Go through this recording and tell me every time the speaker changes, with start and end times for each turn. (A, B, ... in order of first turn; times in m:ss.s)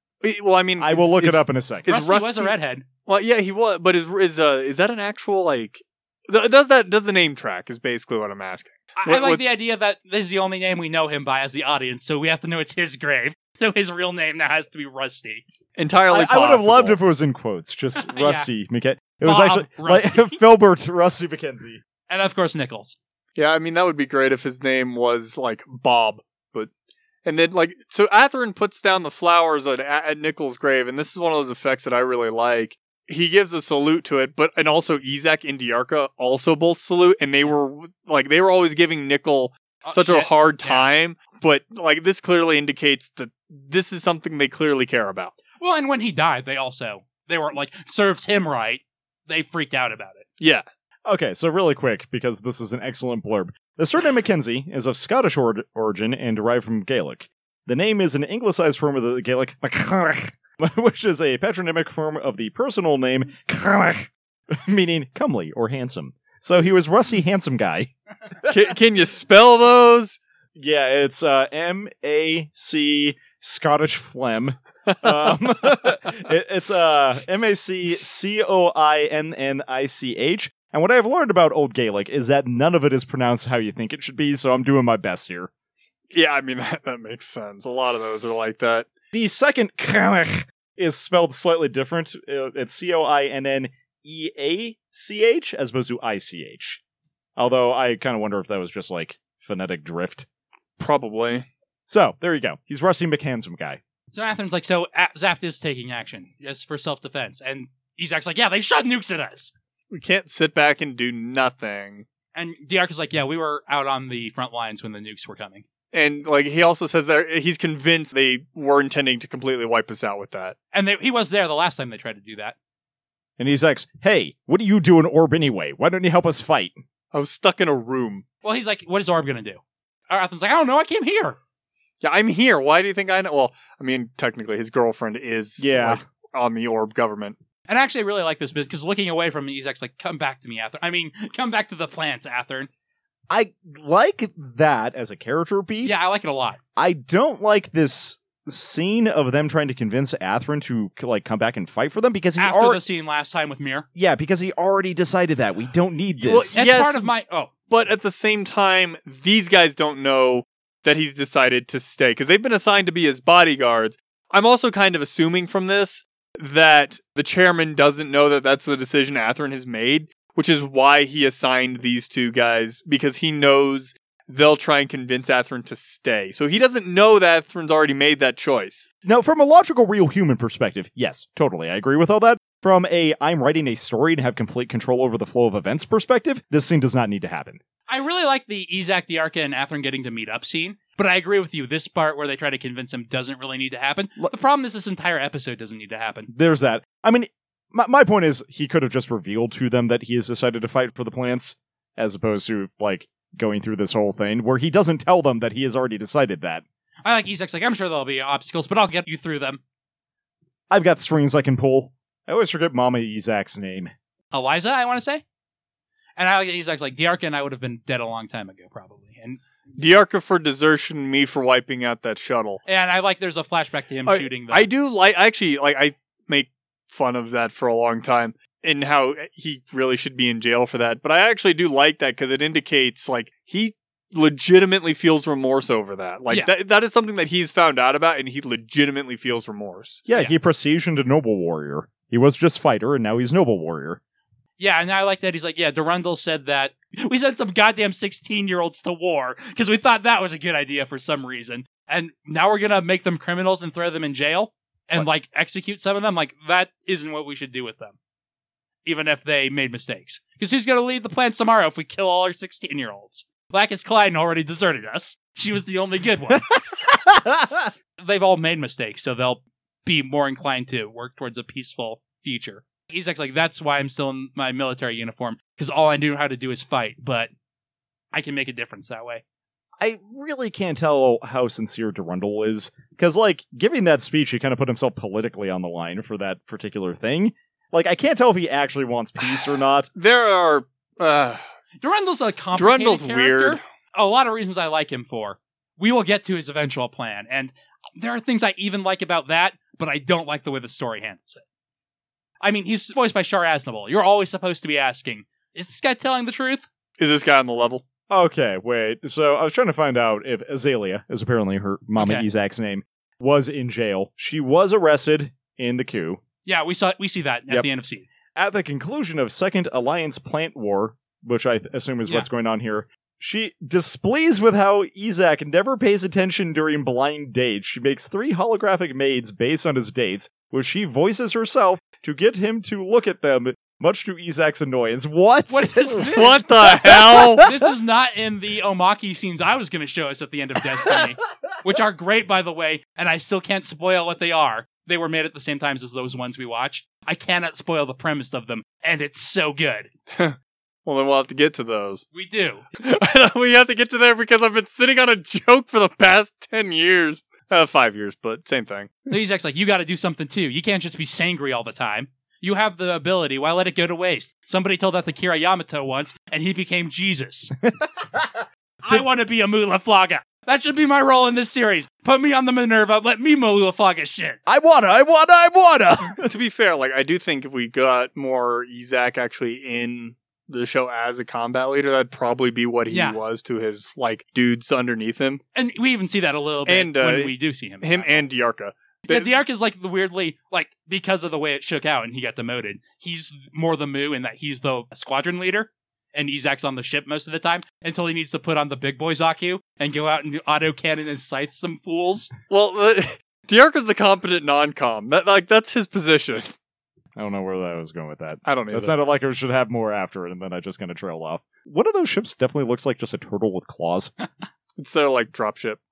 0:00.2-0:09.4 A
0:00.8-0:01.9 B
0:01.9-0:02.9 C
0:09.0-0:15.4 C
0:15.8-0:17.0 A
0:16.1-0:21.8 B
0:18.0-0:18.5 C
0:19.2-0:20.4 C
0:22.1-0:23.0 C
0:23.4-0:26.7 A
0:27.2-0:45.4 A
0:39.8-0:40.9 C
0:45.6-0:50.2 C
0:51.1-1:07.9 B
1:08.4-1:08.7 B
1:08.5-1:10.2 A
1:10.6-1:25.5 B
1:14.9-1:15.2 A
1:26.1-1:28.9 A
1:29.1-1:36.8 B
1:37.4-1:40.3 B
1:40.8-1:41.5 A
1:41.9-1:43.8 B
1:44.2-1:49.5 C
1:49.9-1:52.1 A
1:52.4-1:55.6 C
1:55.9-2:00.6 A
2:00.7-2:02.6 C
2:03.4-2:06.8 B
2:07.1-2:08.2 A
2:08.4-2:11.4 C
2:12.0-2:17.4 A
2:15.6-2:16.0 B
2:17.7-2:22.7 C
2:23.3-2:26.0 B
2:25.8-2:26.6 C
2:26.8-2:32.8 B
2:32.4-2:33.9 C
2:34.0-2:36.6 B
2:36.2-2:37.1 A
2:36.5-2:37.5 C
2:37.7-2:58.9 A
2:59.0-3:07.6 B
3:07.9-3:16.3 C
3:16.3-3:26.6 B
3:27.0-3:29.6 C
3:30.7-3:33.9 B
3:34.3-3:35.2 C
3:36.2-3:39.4 C
3:39.8-3:42.6 A
3:42.7-3:44.7 C
3:44.1-4:00.0 A
4:00.1-4:04.0 B
4:04.6-4:18.0 C
4:18.8-4:26.5 C
4:26.9-4:27.7 B
4:28.0-4:37.3 C
4:38.1-4:39.2 C
4:39.8-4:49.9 B
4:50.0-4:51.4 A
4:51.8-5:01.4 C
4:52.6-4:53.6 A
5:02.4-5:06.7 C
5:07.0-5:07.8 A
5:08.1-5:16.2 B
5:12.0-5:12.3 C
5:16.5-5:18.1 C
5:18.4-5:37.5 B
5:35.5-5:36.4 C
5:36.0-5:37.4 A
5:37.4-5:49.9 C
5:50.1-5:52.1 A
5:52.1-5:52.6 C
5:52.8-5:58.9 A
5:59.1-6:07.6 C
6:07.6-6:09.0 B
6:08.8-6:14.4 C
6:14.5-6:16.3 B
6:16.2-6:25.4 A
6:22.9-6:23.2 C
6:25.6-6:28.3 C
6:26.7-6:29.4 A
6:29.1-6:42.3 C
6:42.5-6:46.5 A
6:47.2-6:54.1 B
6:48.4-6:49.0 A
6:54.8-6:55.8 A